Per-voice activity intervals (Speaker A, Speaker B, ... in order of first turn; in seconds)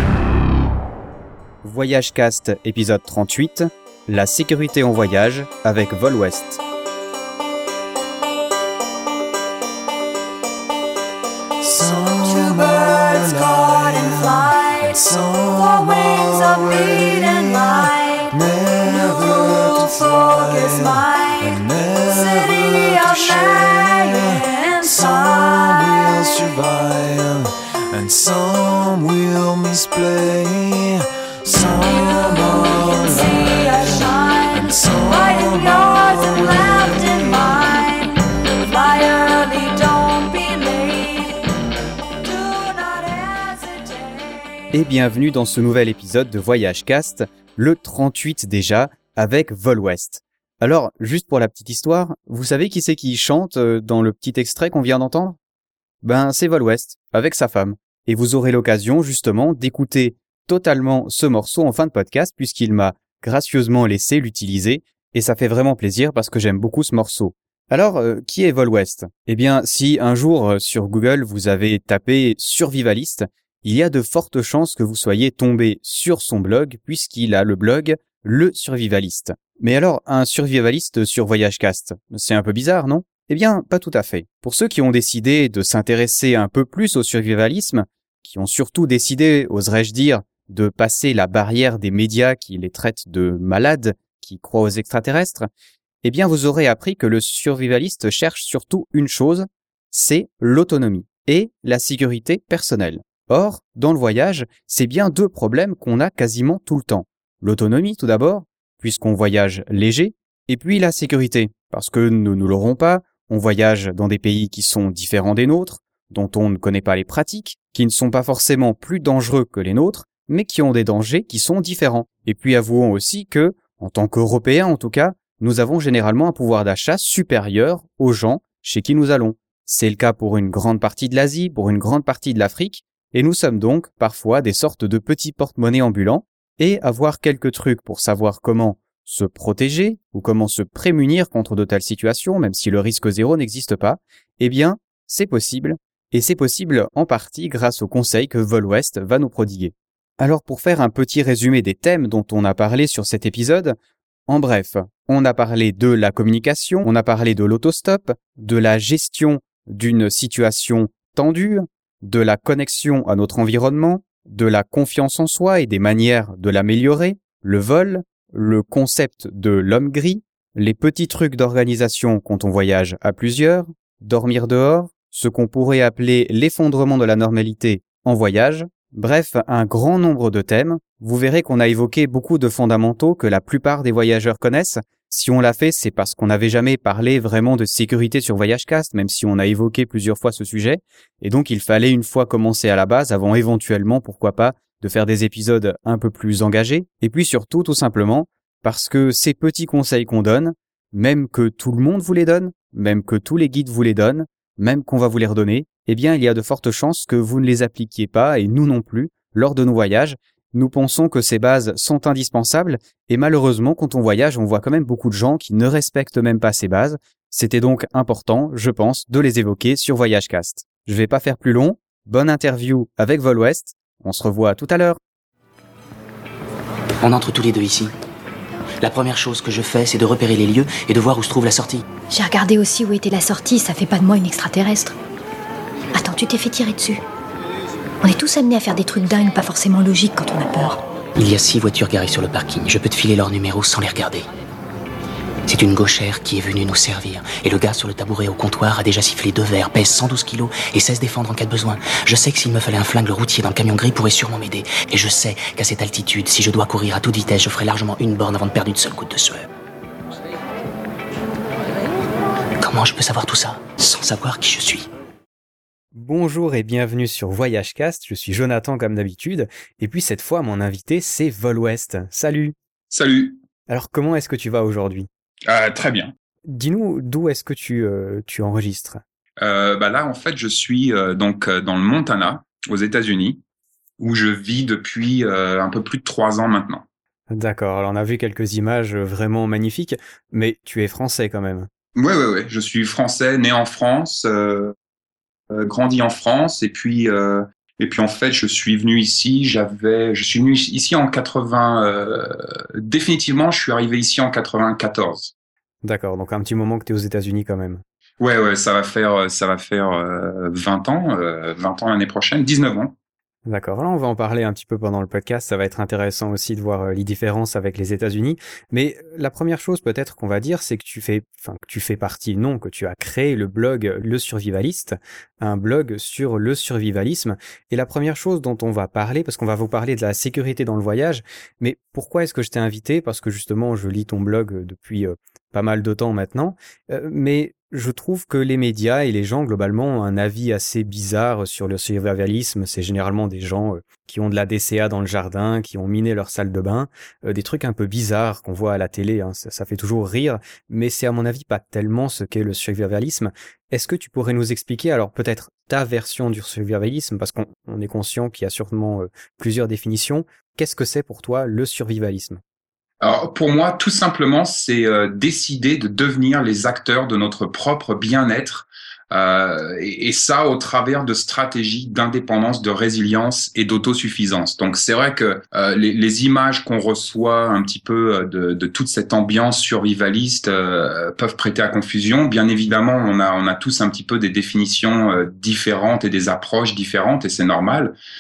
Speaker A: 1.6-6.6, 44.7-55.4, 56.0-95.5, 96.0-153.8, 154.3-225.0, 265.9-272.6, 273.7-275.1, 276.5-279.0, 287.3-291.7, 305.8-307.8, 313.5-362.4
Speaker B: 11.6-37.5
Speaker C: 12.3-14.8, 15.6-18.2, 18.9-21.6, 22.1-26.3, 32.0-41.5, 42.2-44.6
Speaker D: 227.0-227.9, 228.8-231.8, 241.2-244.3, 245.5-259.5, 262.6-264.9
Speaker E: 232.1-234.9, 235.9-237.0, 238.0-240.8
Speaker F: 272.9-273.4, 275.5-276.1, 279.4-283.4, 284.0-286.8, 292.0-294.7, 295.5-305.3, 308.2-312.9, 363.0-388.0